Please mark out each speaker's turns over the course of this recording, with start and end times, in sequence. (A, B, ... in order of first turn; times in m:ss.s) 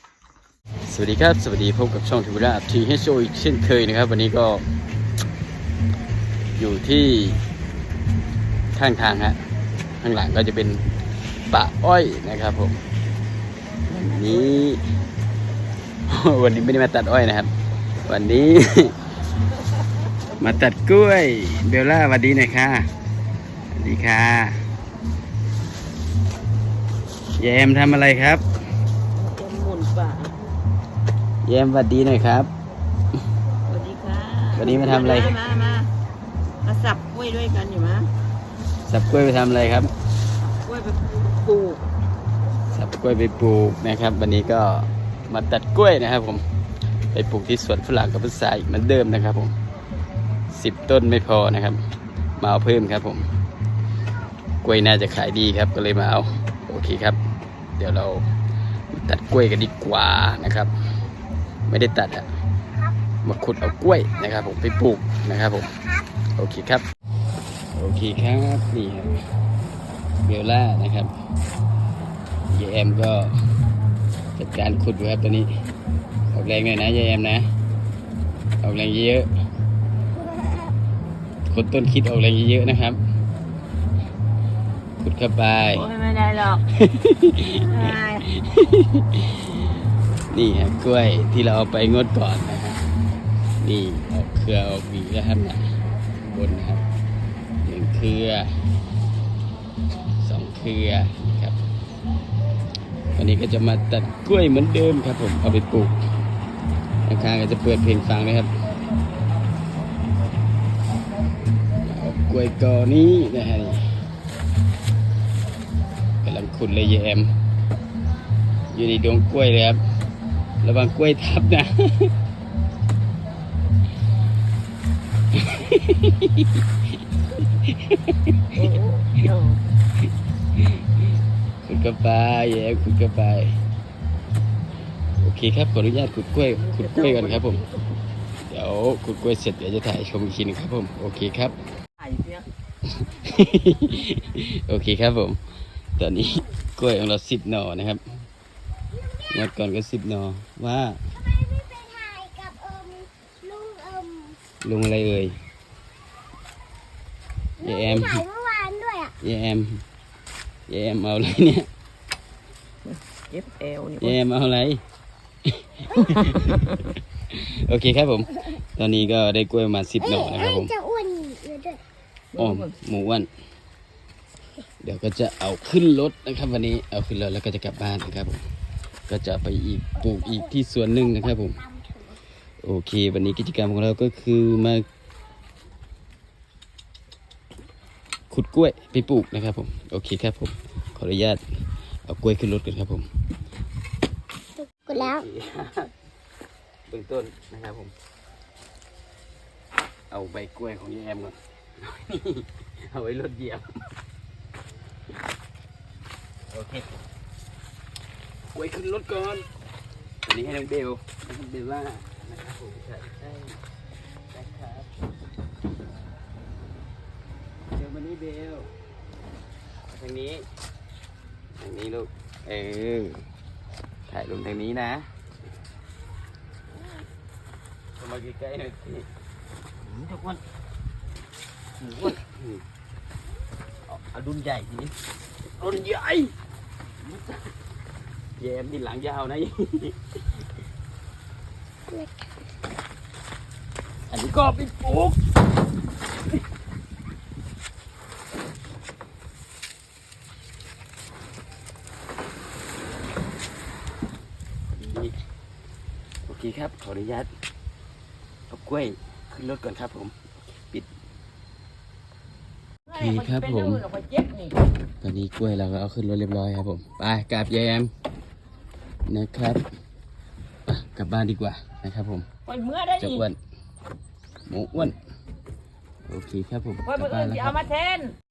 0:00.9-0:04.7 A
0:06.6-0:07.4 A
0:08.8-0:09.4 A
0:10.0-0:10.8 A
0:11.5-0:12.8 A
0:13.9-0:14.8 A
0:16.1-0:17.5 A
0:18.0-0:19.0 A
0:20.4-0:22.9 A
0:23.7-0:24.6 A
0:27.4-0:28.4 A
0:29.1-0:30.4 B
0:31.4-0:32.5 A
0:33.7-0:35.9 B
0:34.5-0:35.4 A
0:36.6-0:38.1 B
0:38.8-0:39.9 A
0:40.5-0:41.8 B
0:42.7-0:46.4 A
0:47.1-0:49.6 A
0:50.5-0:51.8 A
0:52.4-0:53.2 A
0:54.6-0:57.2 A
0:57.8-0:58.3 A
0:58.9-1:00.7 A
1:01.7-1:02.3 A
1:03.2-1:06.8 A
1:07.7-1:09.3 A
1:10.2-1:11.1 A
1:12.5-1:13.3 A
1:14.4-1:15.5 A
1:16.3-1:17.5 A
1:18.6-1:19.3 A
1:21.5-1:23.0 A
1:25.0-1:25.9 A
1:25.7-1:26.6 B
1:26.7-1:29.8 A
1:27.6-1:28.3 B
1:30.3-1:32.8 A
1:33.6-1:36.8 A
1:37.6-1:38.6 A
1:40.2-1:41.6 A
1:43.1-1:46.0 A
1:47.0-1:48.5 A
1:51.8-1:54.0 A
1:56.2-1:57.3 A
1:58.7-1:59.8 A
2:00.6-2:02.1 A
2:05.3-2:06.6 A
2:07.4-2:08.6 A
2:08.5-2:09.6 B
2:10.6-2:11.1 A
2:11.6-2:13.6 A
2:15.2-2:17.6 A
2:16.6-2:17.8 B
2:18.4-2:21.6 A
2:22.0-2:22.5 B
2:22.9-2:25.4 A
2:26.0-2:28.3 A
2:29.3-2:31.4 A
2:31.4-2:34.4 C
2:34.6-2:35.4 A
2:37.6-2:38.4 A
2:38.3-2:39.1 C
2:39.0-2:39.8 A
2:40.7-2:41.7 A
2:42.8-2:44.2 B
2:44.0-2:44.8 A
2:45.5-2:50.9 A
2:50.8-2:51.8 C
2:52.3-2:52.7 B
2:52.4-2:53.3 A
2:54.8-2:58.4 A
2:59.1-3:01.7 A
3:02.6-3:04.9 A
3:08.3-3:11.4 A
3:12.0-3:13.1 A
3:14.9-3:15.9 A
3:16.9-3:18.0 A
3:20.1-3:23.8 A
3:26.5-3:26.9 A
3:28.5-3:29.5 A
3:30.2-3:33.6 A
3:34.3-3:34.9 A
3:37.7-3:38.7 A
3:39.8-3:40.5 A
3:41.6-3:43.3 A
3:44.1-3:45.1 A
3:48.0-3:49.1 A
3:49.8-3:50.4 A
3:51.8-3:52.6 A
3:53.9-3:55.0 A
3:55.5-3:56.3 A
3:57.0-3:57.5 A
3:58.4-4:00.4 A
4:04.1-4:05.2 A
4:14.7-4:15.2 A
4:16.2-4:17.3 A
4:18.5-4:20.9 A
4:22.9-4:23.9 A
4:22.9-4:24.6 B
4:25.0-4:27.9 A
4:29.0-4:29.6 A
4:30.7-4:32.3 A
4:32.5-4:33.2 B
4:33.0-4:33.4 A
4:34.5-4:35.0 A
4:36.1-4:37.8 A
4:37.0-4:38.2 B